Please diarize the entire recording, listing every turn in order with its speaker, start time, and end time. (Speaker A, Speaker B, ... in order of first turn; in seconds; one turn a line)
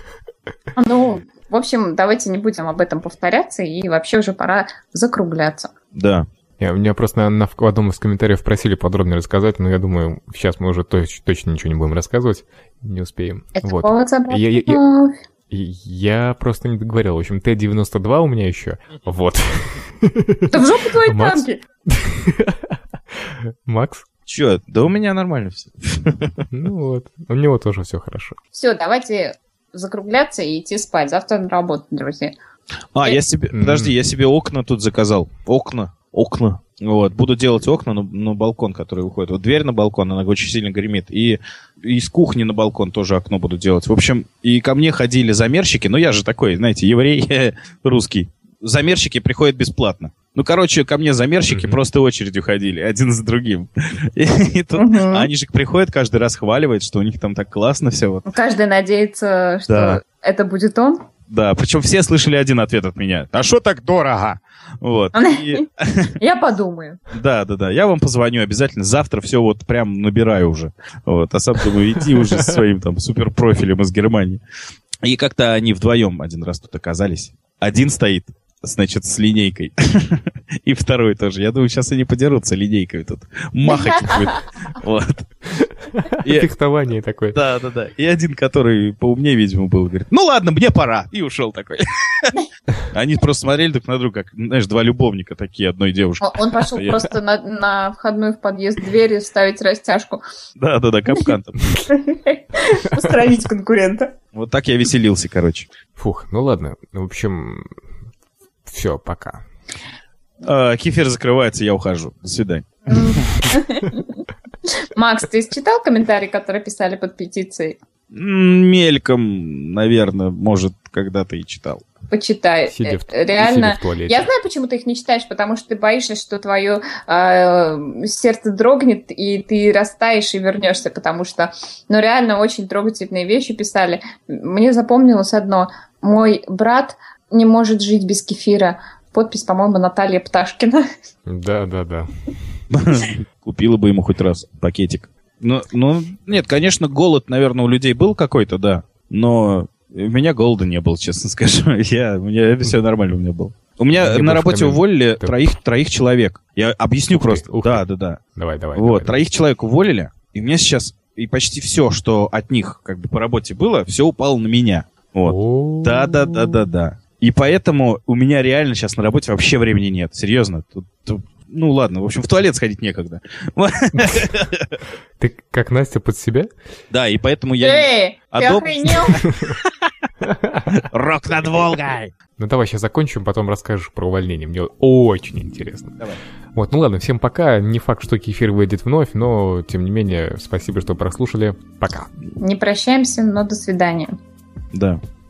Speaker A: 0.8-5.7
Speaker B: 5.9-6.2
Speaker C: 6.6-14.8
Speaker A: 13.6-15.1
Speaker C: 15.5-24.0
Speaker A: 20.5-21.6
Speaker B: 24.3-26.4
Speaker C: 26.5-28.4
Speaker A: 28.5-32.3
Speaker B: 32.9-58.2
Speaker C: 33.5-33.9
Speaker C: 51.5-51.8
Speaker A: 54.7-55.3
Speaker A: 58.3-61.0
Speaker B: 59.7-60.0
Speaker B: 61.3-66.2
Speaker A: 65.1-65.6
Speaker A: 66.2-67.0
Speaker B: 67.1-74.4
Speaker C: 72.2-72.6
Speaker B: 75.0-85.5
Speaker A: 83.7-84.4
Speaker C: 86.0-87.4
Speaker B: 86.2-86.5
Speaker B: 87.3-92.3
Speaker B: 92.9-97.1
Speaker A: 96.2-100.2
Speaker B: 100.6-101.8
Speaker A: 101.9-104.1
Speaker B: 104.3-105.7
Speaker C: 106.0-107.7
Speaker C: 108.7-109.4
Speaker B: 110.4-113.5
Speaker A: 112.9-117.8
Speaker B: 118.1-121.8
Speaker A: 122.1-140.8
Speaker C: 122.7-124.3
Speaker C: 141.2-142.1
Speaker B: 142.7-158.2
Speaker C: 154.0-155.4
Speaker C: 157.1-159.2
Speaker B: 158.8-174.8
Speaker C: 165.2-166.6
Speaker C: 173.9-174.3
Speaker C: 175.2-176.5
Speaker B: 176.9-179.7
Speaker A: 177.6-179.2
Speaker C: 180.2-180.8
Speaker B: 180.7-182.1
Speaker C: 182.4-185.9
Speaker C: 186.5-192.1
Speaker A: 192.4-194.1
Speaker B: 194.7-195.0